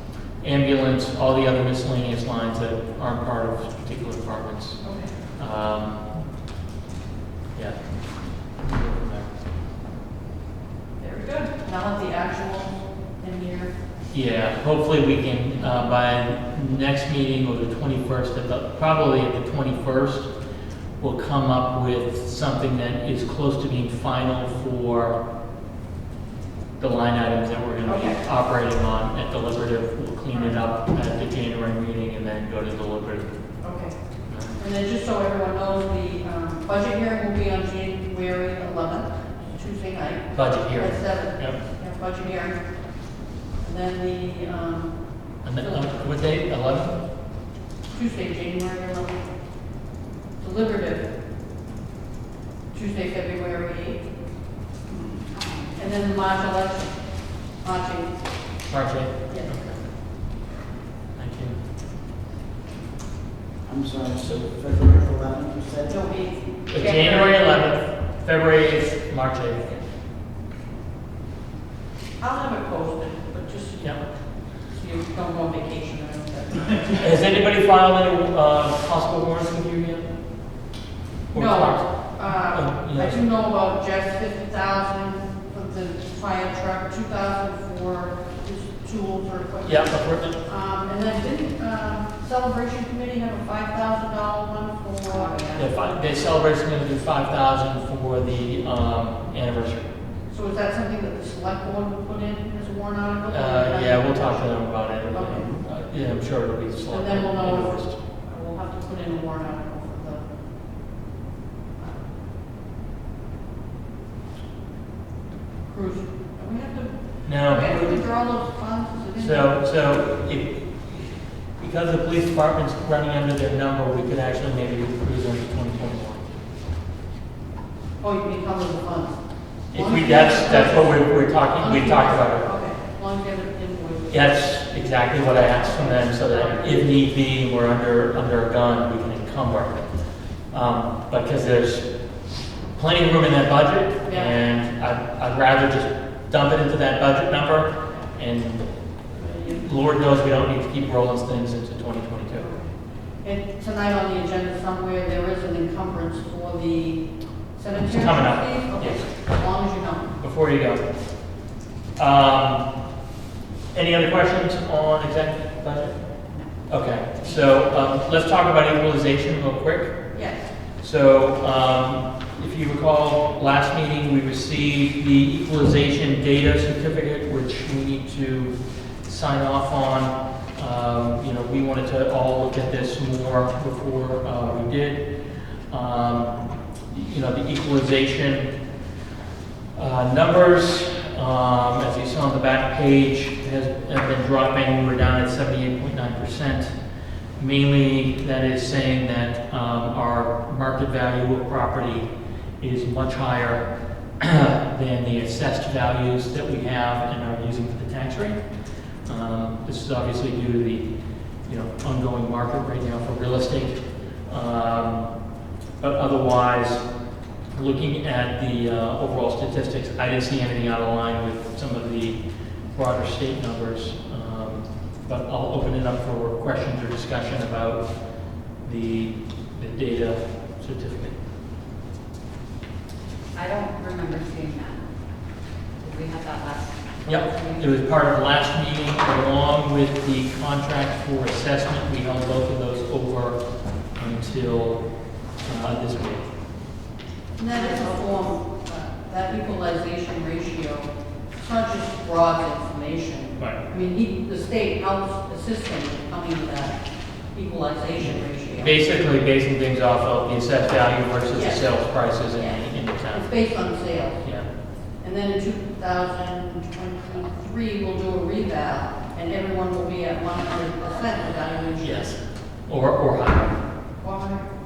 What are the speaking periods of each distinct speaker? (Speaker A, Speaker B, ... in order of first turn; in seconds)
Speaker A: 0.4-4.8, 5.4-6.0, 8.6-9.3, 14.1-20.3, 21.0-25.2, 26.8-33.3, 34.3-34.6, 40.3-41.6, 45.4-47.0, 58.7-59.8, 61.1-61.5, 66.7-69.7, 77.0-80.1, 81.3-83.2, 89.6-90.4, 95.5-99.9, 103.3-108.0, 117.2-118.0, 119.2-126.3, 129.7-132.4, 134.1-139.8, 140.5-141.9, 142.7-148.7, 149.4-152.5, 157.8-159.4, 160.2-160.8, 162.0-162.6, 163.7-166.0, 166.7-170.0, 170.8-186.3, 186.9-188.5, 189.7-196.7, 197.4-202.1, 202.6-203.7, 204.2-208.4, 209.1-210.8, 211.4-215.1, 215.8-216.8, 217.5-222.2, 222.7-227.9, 228.6-231.2, 237.1-243.4, 243.9-244.8, 245.4-246.3, 258.6-263.3, 264.2-264.5, 271.8-273.6
Speaker B: 4.8-5.1, 11.0-13.7, 27.8-28.2, 30.3-30.6, 33.6-33.9, 34.5-42.6, 43.6-45.0, 47.9-49.2, 50.4-51.1, 52.7-54.1, 55.7-57.0, 57.5-58.1, 65.8-67.6, 72.2-77.1, 81.3-95.4, 100.3-104.6, 105.1-105.5, 106.9-110.2, 111.8-112.0, 115.7-119.6, 128.0-129.2, 129.7-134.5, 135.3-136.9, 144.0-144.3, 149.1-149.6, 152.3-157.0, 157.5-160.1, 170.1-170.5, 247.4-256.8, 257.3-258.7, 261.3-264.3, 265.0-272.1, 274.0-274.4
Speaker C: 55.4-55.7, 95.0-95.7, 233.3-234.8, 235.8-237.7, 247.6-247.9
Speaker D: 63.6-66.0